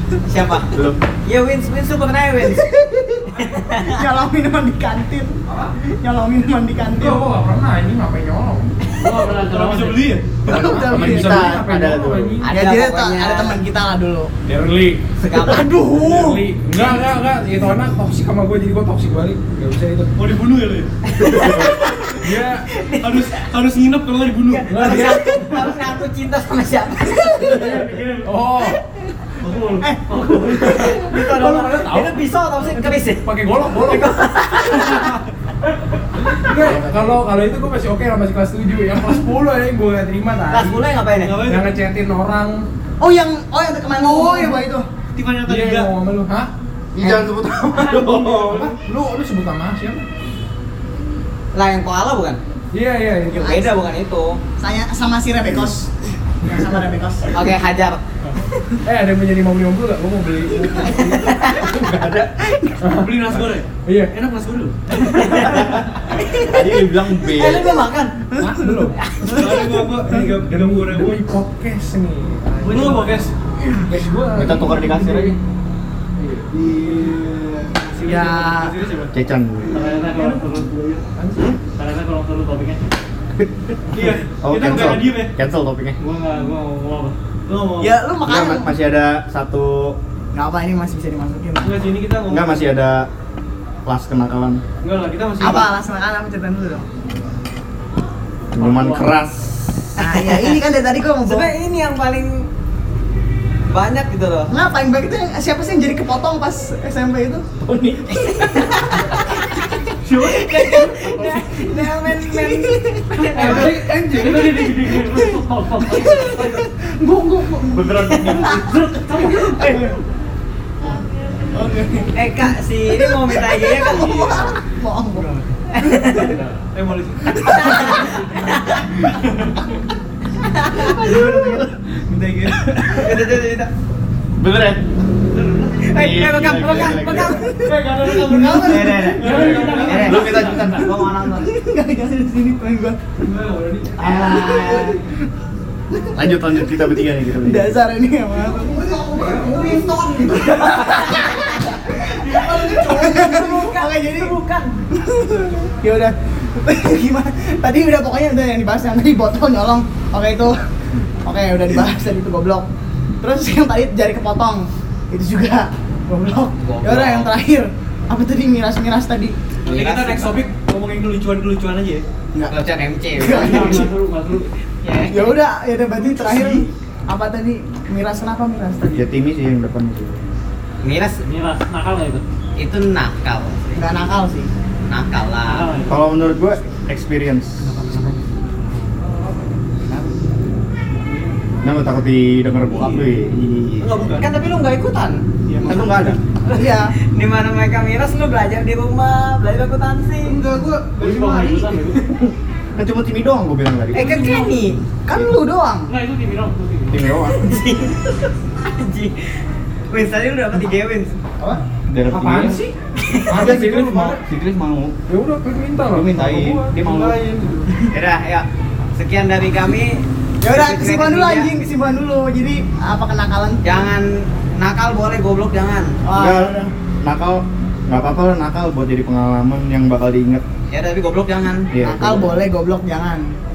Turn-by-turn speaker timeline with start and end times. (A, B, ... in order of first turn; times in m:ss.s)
0:00.3-0:02.7 A
0:00.7-0:01.0 B
0:02.4-0:05.4 C
0:03.4-0:04.0 A
0:06.0-0:07.2 C
0:06.9-0:08.7 D
0:09.0-0:10.1 E
0:09.0-0:10.4 F
0:09.6-0:12.5 D
0:10.4-0:11.4 C
0:10.5-0:12.4 B
0:12.4-0:13.6 A
0:12.5-0:14.3 C
0:14.5-0:20.2 D
0:15.2-0:15.7 A
0:15.4-0:16.4 C
0:20.2-0:20.9 F
0:21.1-0:23.4 A
0:22.2-0:22.7 D
0:23.0-0:24.8 F
0:24.5-0:27.8 A
0:24.7-0:25.7 D
0:27.6-0:28.8 D
0:27.7-0:28.2 F
0:29.4-0:30.6 F
0:30.2-0:35.1 A
0:30.4-0:32.1 D
0:32.8-0:34.3 D
0:36.2-0:40.8 D
0:40.5-0:41.3 A
0:41.1-0:41.7 F
0:41.4-0:42.6 D
0:43.0-0:44.8 C
0:44.0-0:44.5 F
0:45.1-0:45.9 F
0:45.4-0:46.5 D
0:47.0-0:48.7 B
0:47.9-0:50.0 D
0:51.5-0:52.4 A
0:52.7-0:53.5 D
0:53.3-0:54.4 A
0:53.4-0:53.7 C
0:54.6-0:57.5 C
0:57.3-0:58.0 A
0:58.8-1:02.2 D
1:00.6-1:01.7 C
1:01.2-1:01.7 A
1:02.0-1:02.4 B
1:02.8-1:03.3 D
1:02.9-1:05.5 F
1:03.8-1:04.2 D
1:05.0-1:05.6 A
1:05.2-1:07.8 B
1:06.1-1:06.7 C
1:06.2-1:06.5 A
1:07.4-1:08.1 F
1:07.4-1:08.1 A
1:07.5-1:07.7 C
1:08.4-1:09.0 D
1:08.4-1:10.2 C
1:09.2-1:11.2 F
1:10.2-1:15.4 D
1:12.6-1:13.3 F
1:14.3-1:15.4 B
1:16.2-1:17.1 D
1:16.6-1:19.1 F
1:18.0-1:18.8 C
1:19.1-1:19.7 B
1:19.7-1:20.7 E
1:20.1-1:21.0 F
1:21.2-1:21.6 D
1:21.6-1:22.9 E
1:23.4-1:26.0 B
1:23.9-1:25.3 F
1:26.0-1:27.1 E
1:27.5-1:28.0 F
1:27.8-1:28.7 C
1:28.2-1:30.0 B
1:30.3-1:31.7 C
1:31.6-1:32.6 F
1:32.2-1:33.1 B
1:33.8-1:34.6 B
1:34.8-1:35.7 F
1:35.4-1:36.8 C
1:38.5-1:40.3 B
1:38.6-1:39.0 E
1:40.0-1:41.5 C
1:41.2-1:42.5 A
1:43.7-1:44.5 A
1:44.5-1:47.5 C
1:47.6-1:48.5 B
1:48.4-1:59.9 C
1:48.4-1:48.8 A
1:50.0-1:51.1 F
1:50.2-1:53.8 A
1:53.3-1:54.3 F
1:53.4-1:56.6 E
1:57.7-2:00.0 E
1:58.1-1:58.5 A
1:59.3-1:59.8 F
2:01.5-2:02.1 C
2:02.1-2:04.5 A
2:02.9-2:05.2 C
2:05.1-2:05.5 F
2:05.7-2:06.3 A
2:05.8-2:06.3 C
2:06.4-2:08.2 F
2:07.3-2:08.1 C
2:07.5-2:08.9 A
2:09.1-2:09.6 F
2:10.4-2:11.0 A
2:10.9-2:11.6 C
2:11.0-2:13.1 F
2:11.0-2:11.7 B
2:12.9-2:13.7 A
2:14.4-2:14.8 B
2:15.3-2:16.0 F
2:15.8-2:17.5 A
2:15.9-2:17.4 B
2:17.3-2:23.0 C
2:17.5-2:20.6 F
2:18.6-2:21.5 A
2:19.2-2:20.8 E
2:20.0-2:20.8 B
2:23.2-2:24.1 F
2:24.0-2:25.1 C
2:24.0-2:25.0 A
2:25.9-2:34.4 C
2:26.1-2:27.7 B
2:29.2-2:31.2 A
2:31.9-2:33.6 F
2:32.8-2:34.7 A
2:34.9-2:40.6 C
2:41.2-2:42.6 C
2:43.2-2:49.3 C
2:46.6-2:47.3 A
2:49.6-2:50.4 A
2:49.6-2:52.0 F
2:52.4-2:53.9 A
2:53.2-2:53.9 C
2:53.3-2:54.5 E
2:54.8-2:55.4 A
2:55.1-2:59.0 C
2:56.3-2:56.6 F
2:58.9-3:00.2 B
3:00.8-3:01.2 A
3:01.2-3:02.2 E
3:02.6-3:03.8 A
3:03.8-3:04.5 C
3:04.9-3:05.7 A
3:05.5-3:06.1 E
3:05.9-3:07.7 B
3:07.8-3:08.2 F
3:11.6-3:13.9 B
3:12.8-3:13.0 F
3:13.8-3:14.3 F
3:14.1-3:15.9 A
3:15.5-3:15.9 F
3:15.6-3:16.2 B
3:16.4-3:20.4 A
3:16.5-3:16.9 C
3:20.2-3:22.1 F
3:21.0-3:22.0 E
3:22.8-3:24.4 B
3:23.9-3:24.8 A
3:25.0-3:25.9 C
3:25.9-3:27.0 E
3:26.9-3:27.4 B
3:27.3-3:29.3 A
3:29.9-3:31.2 A
3:31.9-3:32.6 B
3:32.1-3:32.7 D
3:33.0-3:33.3 A
3:33.2-3:34.2 D
3:33.3-3:34.9 B
3:35.1-3:37.7 D
3:35.9-3:37.2 B
3:37.9-3:41.5 A
3:40.4-3:43.9 C
3:43.6-3:46.0 A
3:46.0-3:46.7 C
3:46.1-3:50.4 B
3:50.7-3:51.7 A
3:51.7-3:52.4 B
3:51.8-3:53.3 C